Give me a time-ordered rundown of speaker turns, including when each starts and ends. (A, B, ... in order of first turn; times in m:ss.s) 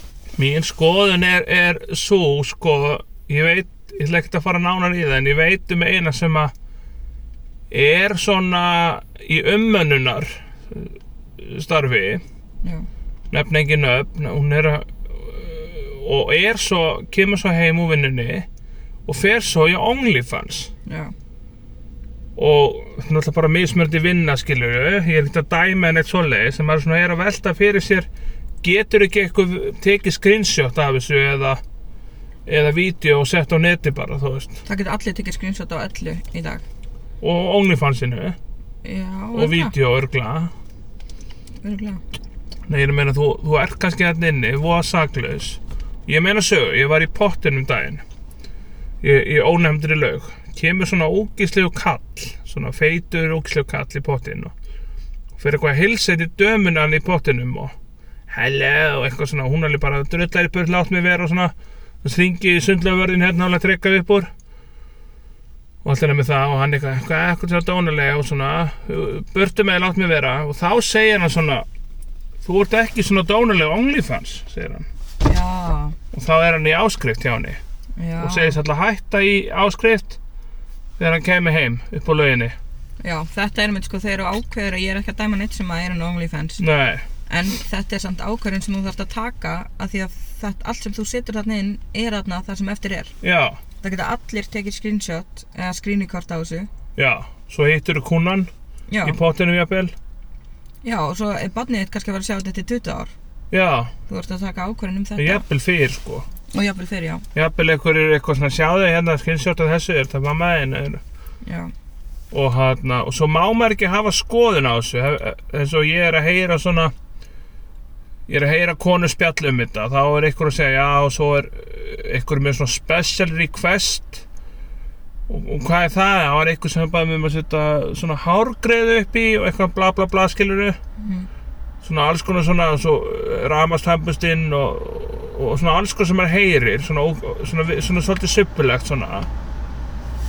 0:00.4-0:06.5 A
0:07.7-0:12.2 A
0:13.3-0:18.5 A
0:19.0-0:20.7 A
0:20.8-0:21.1 B
0:22.4-0:28.1 A
0:28.6-0:31.6 A
0:32.4-0:34.6 A
0:34.6-0:36.6 B
0:37.2-0:38.4 A
0:38.8-0:39.7 B
0:39.3-0:40.5 A
0:41.6-0:42.0 B
0:42.7-0:48.0 A
0:49.0-0:54.5 A
0:55.4-0:57.7 A
0:58.3-1:04.3 A
1:05.8-1:11.6 A
1:12.4-1:14.9 A
1:15.2-1:16.0 B
1:16.1-1:17.6 A
1:18.0-1:18.6 B
1:18.2-1:20.2 A
1:21.0-1:22.6 A
1:23.0-1:26.6 B
1:26.6-1:27.0 A
1:27.3-1:33.1 B
1:33.2-1:33.6 A
1:33.8-1:36.7 B
1:37.0-1:38.5 A
1:38.9-1:39.2 B
1:39.0-1:39.9 A
1:40.8-1:43.1 B
1:43.5-1:43.9 A
1:44.1-1:45.4 B
1:45.2-1:46.2 A
1:46.5-1:47.2 B
1:47.3-1:51.0 A
1:51.4-1:51.7 B
1:52.3-1:56.9 A
1:58.3-2:04.2 A
2:05.3-2:10.8 A
2:11.0-2:11.3 B
2:11.8-2:19.3 A